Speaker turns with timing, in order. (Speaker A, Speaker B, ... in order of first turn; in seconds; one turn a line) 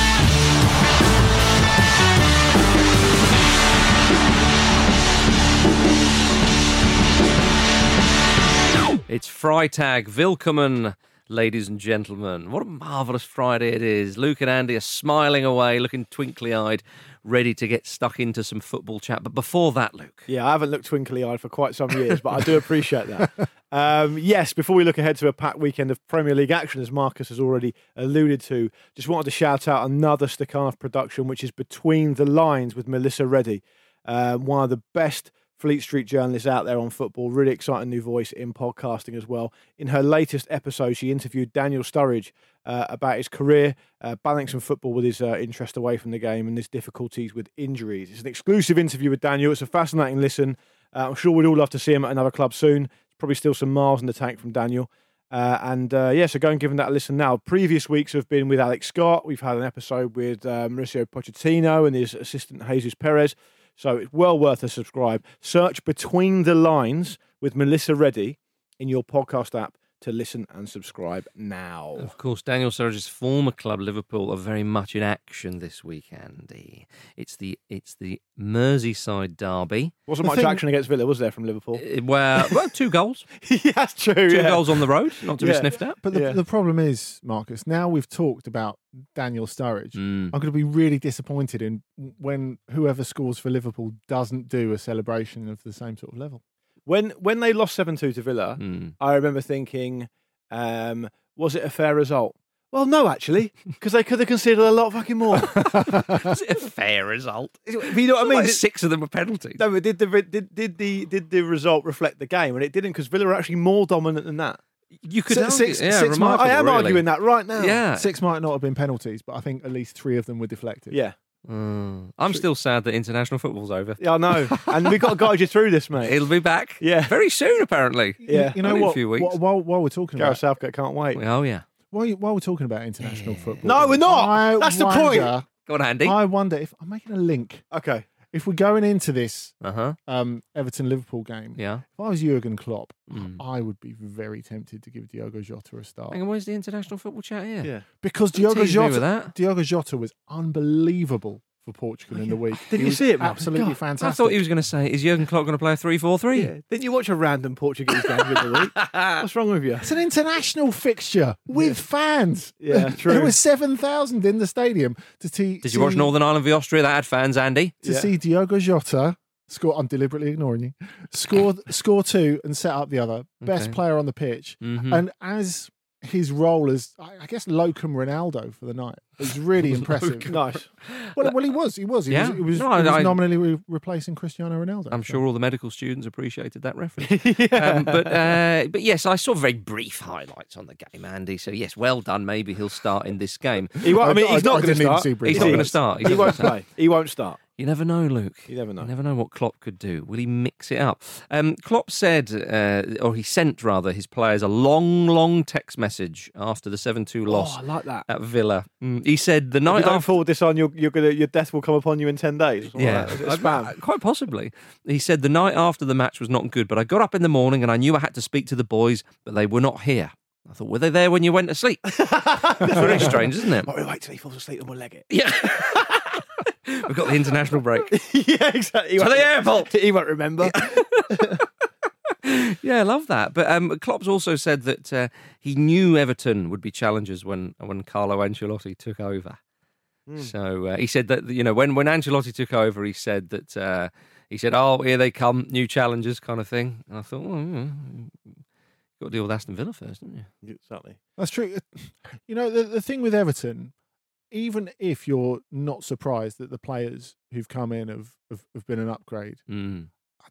Speaker A: 9.1-20.3
Speaker B: 20.3-72.1
Speaker A: 72.0-80.0
Speaker B: 80.1-81.8
Speaker C: 80.2-80.6
Speaker A: 81.8-83.3
Speaker B: 83.4-86.4
Speaker A: 84.3-86.0
Speaker C: 86.0-96.4
Speaker A: 90.0-90.3
Speaker B: 96.9-105.9
Speaker A: 98.6-98.9
Speaker C: 105.5-106.2
Speaker A: 105.7-109.6
Speaker B: 107.7-108.6
Speaker B: 109.6-114.6
Speaker A: 115.0-117.0
Speaker C: 115.3-116.4
Speaker B: 116.1-117.8
Speaker A: 117.6-118.1
Speaker C: 117.9-121.0
Speaker B: 120.9-121.2
Speaker A: 121.5-124.1
Speaker B: 124.0-126.2
Speaker C: 124.6-125.1
Speaker A: 126.0-129.4
Speaker B: 126.8-127.2
Speaker C: 128.2-130.4
Speaker B: 128.3-128.7
Speaker B: 130.2-131.2
Speaker A: 131.2-131.7
Speaker C: 131.9-135.5
Speaker A: 133.0-133.7
Speaker B: 133.6-135.3
Speaker A: 135.7-136.2
Speaker C: 136.0-137.7
Speaker B: 137.7-138.1
Speaker C: 138.3-139.6
Speaker A: 139.6-140.0
Speaker C: 140.1-146.2
Speaker A: 141.6-141.8
Speaker A: 143.1-143.4
Speaker A: 146.1-147.7
Speaker C: 148.0-154.4
Speaker A: 148.3-149.3
Speaker B: 152.2-153.8
Speaker A: 154.0-156.5
Speaker B: 156.3-159.9
Speaker A: 158.4-159.2
Speaker C: 159.8-166.1
Speaker B: 161.5-161.8
Speaker B: 162.6-163.4
Speaker A: 165.6-167.8
Speaker C: 167.8-180.3
Speaker B: 167.8-168.1
Speaker A: 173.4-173.8
Speaker A: 174.6-175.0
Speaker A: 179.7-181.3
Speaker B: 180.3-180.7
Speaker C: 181.1-185.2
Speaker A: 182.1-183.2
Speaker A: 184.9-194.0
Speaker B: 187.0-188.4
Speaker B: 193.8-197.4
Speaker C: 193.8-196.5
Speaker A: 195.3-196.5
Speaker A: 197.6-210.2
Speaker B: 198.5-198.9
Speaker B: 207.3-208.1
Speaker B: 209.7-213.8
Speaker A: 212.8-221.9
Speaker B: 221.9-225.8
Speaker A: 222.6-223.7
Speaker A: 225.1-227.9
Speaker B: 227.9-231.4
Speaker A: 229.0-229.7
Speaker A: 230.4-231.4
Speaker A: 232.2-239.4
Speaker B: 240.1-240.3
Speaker A: 240.2-248.4
Speaker A: 249.0-250.3
Speaker B: 250.4-251.0
Speaker C: 251.2-253.7
Speaker C: 254.3-259.4
Speaker A: 259.5-259.9